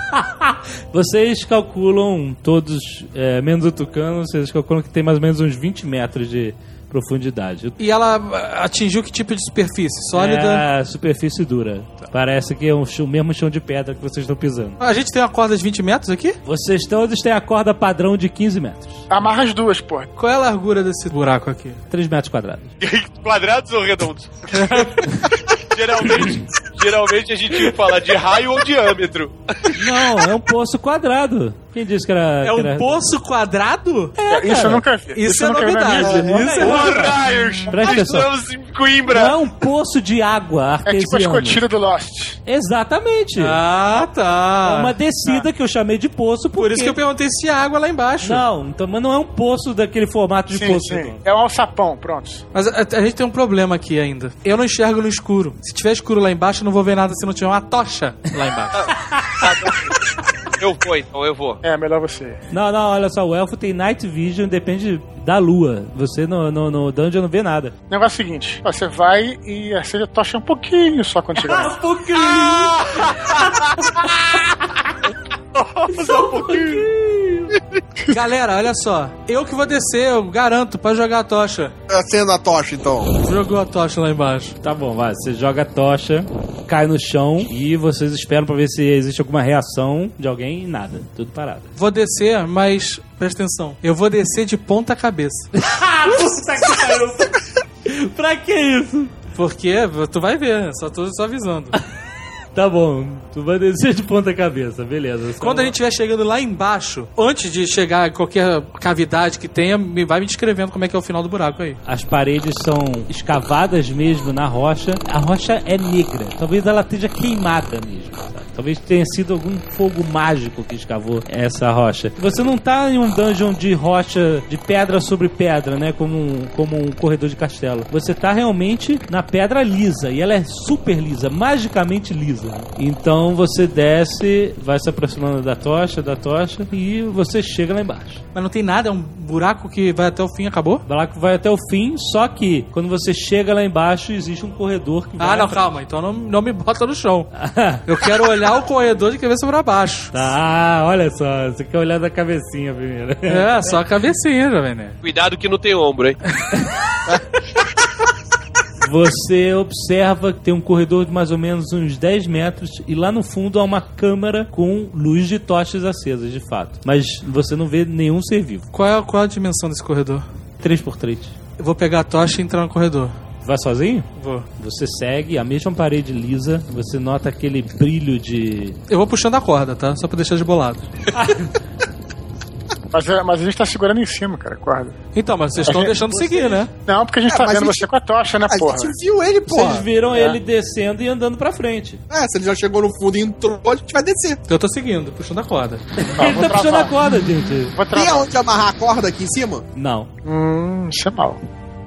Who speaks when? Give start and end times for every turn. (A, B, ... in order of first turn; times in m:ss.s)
0:00.1-0:07.8 A
0:07.8-0:10.6 B
0:10.1-0:14.8 A
0:14.8-0:16.4 B
0:16.5-0:19.0 A
0:19.1-0:20.1 C
0:20.2-0:21.8 B
0:21.9-0:22.7 A
0:22.8-0:24.4 D
0:24.5-0:25.0 B
0:25.6-0:29.8 D
0:29.8-0:33.0 A
0:32.4-0:37.1 B
0:34.3-0:37.8 C
0:36.0-0:37.2 A
0:36.6-0:39.4 D
0:37.7-0:38.3 A
0:39.1-0:41.6 A
0:40.8-0:42.4 C
0:42.5-0:43.6 A
0:43.4-0:44.9 B
0:44.6-0:47.0 A
0:46.6-0:48.4 B
0:48.2-0:51.2 A
0:50.5-0:52.4 C
0:52.5-0:58.9 B
0:59.4-0:59.9 D
1:00.6-1:01.6 D
1:01.6-1:02.4 C
1:02.5-1:07.7 A
1:07.9-1:11.8 C
1:11.4-1:13.4 A
1:12.7-1:13.1 D
1:15.5-1:16.9 D
1:16.0-1:17.5 A
1:18.1-1:21.7 B
1:21.9-1:23.1 E
1:23.2-1:24.6 B
1:24.6-1:31.7 A
1:31.8-1:35.5 B
1:35.6-1:39.1 A
1:39.4-1:41.8 B
1:42.6-1:45.8 A
1:45.4-1:51.8 B
1:51.9-2:18.2 A
2:18.4-2:20.8 B
2:20.9-2:25.7 A
2:25.2-2:27.3 B
2:27.4-2:27.8 A
2:27.9-2:30.1 B
2:30.1-2:33.7 A
2:33.3-2:35.0 B
2:35.0-2:36.2 D
2:38.8-2:48.7 A
2:48.7-2:50.3 B
2:50.6-2:51.3 A
2:51.6-2:53.1 B
2:53.4-2:54.1 A
2:54.2-2:54.5 B
2:54.6-2:58.8 A
2:58.9-3:00.9 B
3:01.1-3:01.5 A
3:02.9-3:05.0 C
3:05.2-3:06.7 B
3:05.6-3:05.9 C
3:05.7-3:06.7 A
3:06.9-3:09.0 C
3:07.3-3:07.9 E
3:08.5-3:10.3 E
3:09.5-3:12.0 A
3:12.1-3:14.4 E
3:14.5-3:15.8 B
3:16.0-3:17.8 A
3:16.2-3:16.9 C
3:17.7-3:18.3 C
3:17.9-3:19.7 E
3:19.8-3:20.1 A
3:20.2-3:21.4 C